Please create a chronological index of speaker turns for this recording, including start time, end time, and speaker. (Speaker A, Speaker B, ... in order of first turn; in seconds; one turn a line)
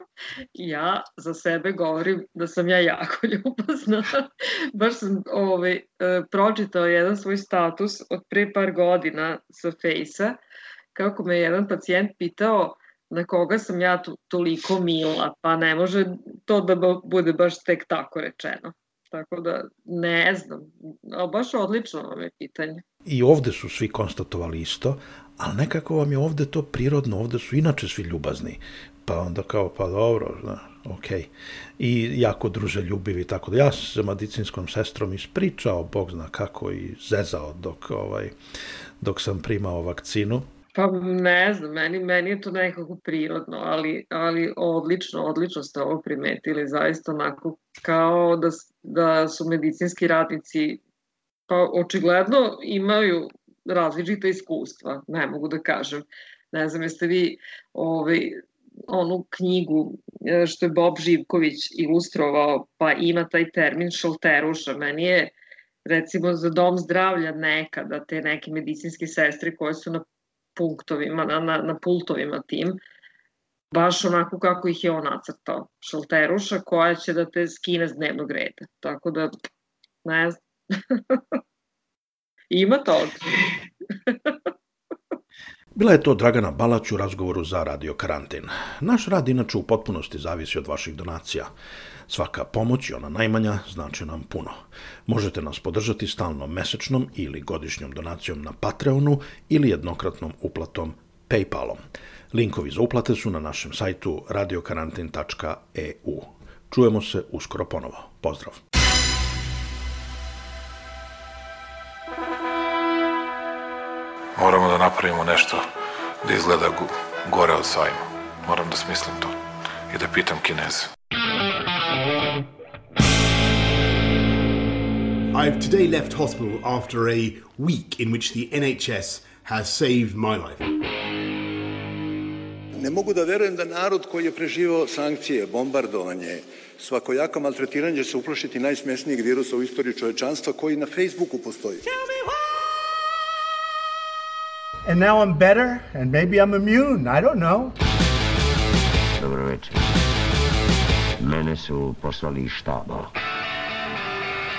Speaker A: 0.6-10.4
Speaker A: 10.9-22.8
Speaker B: 23.1-38.4
Speaker B: 39.0-40.5
Speaker A: 40.7-50.8
Speaker A: 51.5-65.3
Speaker A: 65.9-70.0
Speaker A: 70.6-72.8
Speaker A: 73.7-79.4
Speaker A: 80.0-81.4
Speaker A: 82.5-83.4
Speaker A: 84.1-84.4
Speaker B: 85.8-91.5
Speaker B: 92.1-101.8
Speaker B: 102.3-108.6
Speaker C: 114.4-115.7
Speaker C: 116.2-119.4
Speaker C: 119.9-120.9
Speaker D: 125.3-130.7
Speaker E: 132.8-142.0
Speaker F: 144.9-147.7
Speaker G: 149.2-150.0
Speaker G: 151.2-153.1